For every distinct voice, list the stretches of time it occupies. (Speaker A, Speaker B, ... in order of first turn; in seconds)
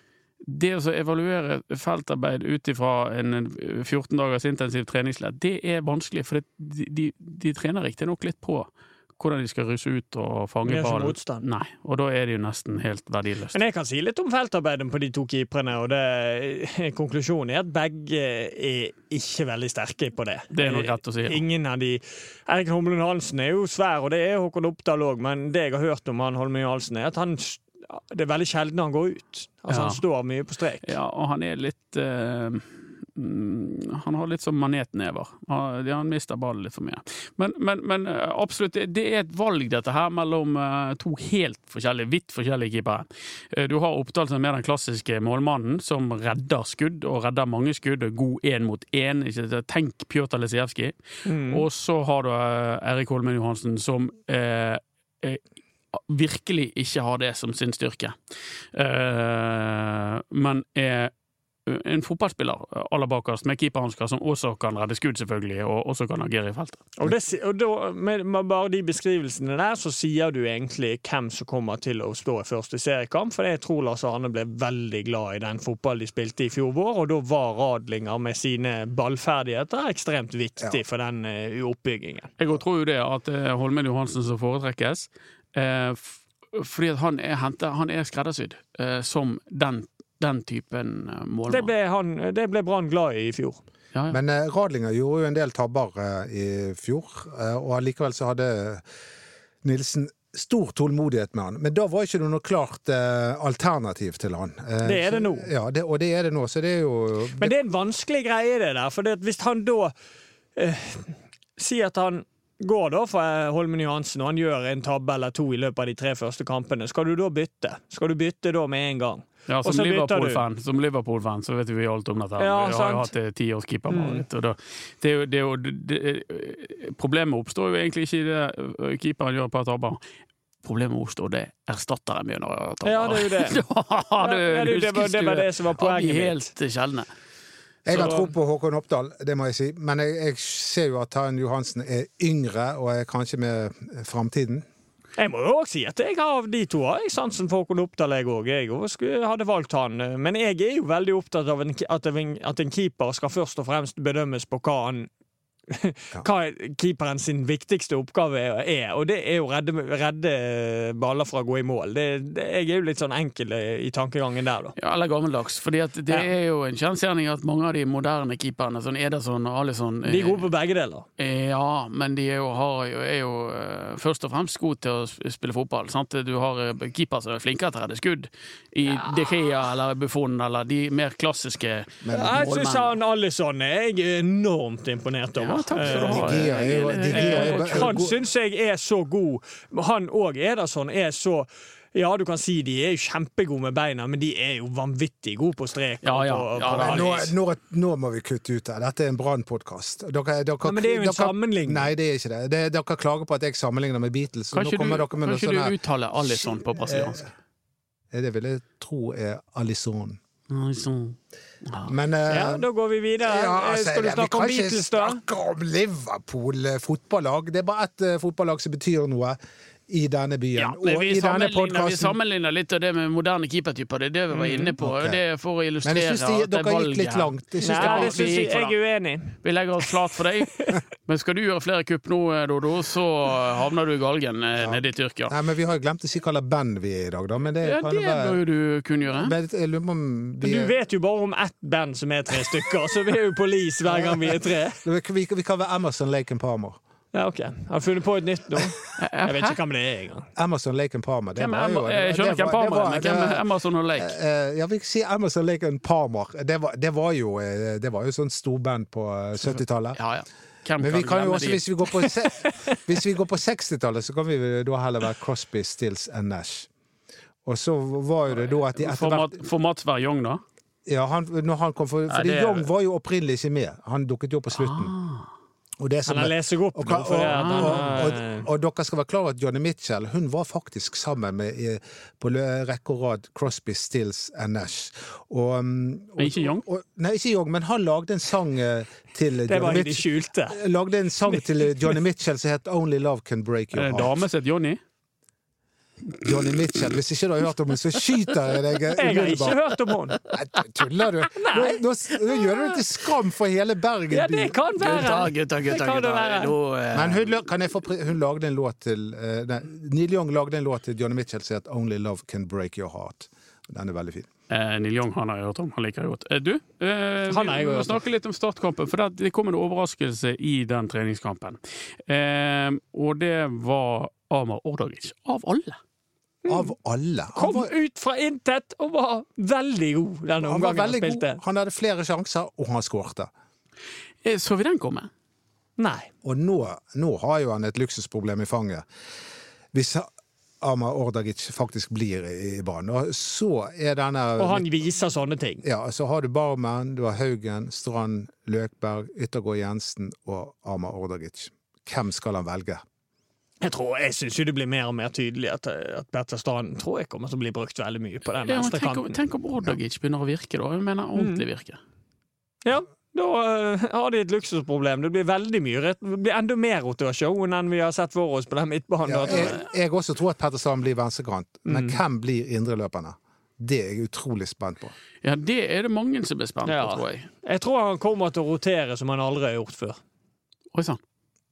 Speaker A: 0.4-13.6, 20.5-21.4, 29.7-30.0, 30.8-55.4, 55.9-58.1, 58.7-61.1, 61.6-66.9, 82.4-91.7, 119.5-130.0, 130.6-137.1, 164.8-170.5, 171.2-182.9, 185.4-188.0, 196.0-197.3, 204.5-207.3, 210.5-211.9, 220.6-228.8, 229.4-235.3, 237.6-239.3, 249.0-249.6, 251.4-254.1, 259.4-262.1, 268.7-270.4, 272.1-272.7, 274.5-275.2, 277.3-278.0, 286.2-286.6, 293.7-294.8, 304.8-307.3, 314.5-325.8, 334.2-335.1, 358.4-361.8, 369.3-369.6, 375.2-377.3, 380.7-381.0
Speaker B: 10.6-11.4, 13.5-30.9, 51.2-51.6, 67.0-82.3, 91.5-93.6, 104.8-105.5, 107.4-109.9, 110.5-120.4, 122.4-123.1, 123.9-124.2, 132.8-133.6, 134.2-136.4, 137.9-138.2, 145.2-155.1, 155.7-164.7, 170.0-171.1, 182.1-197.1, 200.6-201.9, 212.3-215.2, 227.6-229.9, 240.4-244.8, 247.1-250.3, 276.1-278.5, 289.5-290.6, 298.9-300.2, 301.3-301.8, 302.4-302.8, 304.1-306.5, 317.3-318.0, 326.4-326.7, 327.4-331.4, 335.8-336.1, 344.4-345.6, 353.6-359.2, 361.1-361.4, 362.6-369.5, 371.6-372.0, 376.6-380.0
Speaker C: 94.1-98.8, 99.6-107.5, 137.8-144.7, 182.0-182.4, 185.9-188.1, 196.8-207.3, 208.1-210.2, 211.8-212.7, 213.2-222.1, 224.8-225.2, 225.8-228.4, 234.6-238.4, 239.1-240.7, 243.9-246.8, 250.3-253.4, 254.0-260.0, 260.8-266.7, 267.4-269.4, 270.9-274.9, 275.8-294.1, 296.2-299.6, 300.3-305.1, 306.9-314.3, 326.5-327.7, 330.4-333.3, 336.2-338.8, 339.7-340.1, 340.6-344.6, 345.6-352.8, 369.0-374.9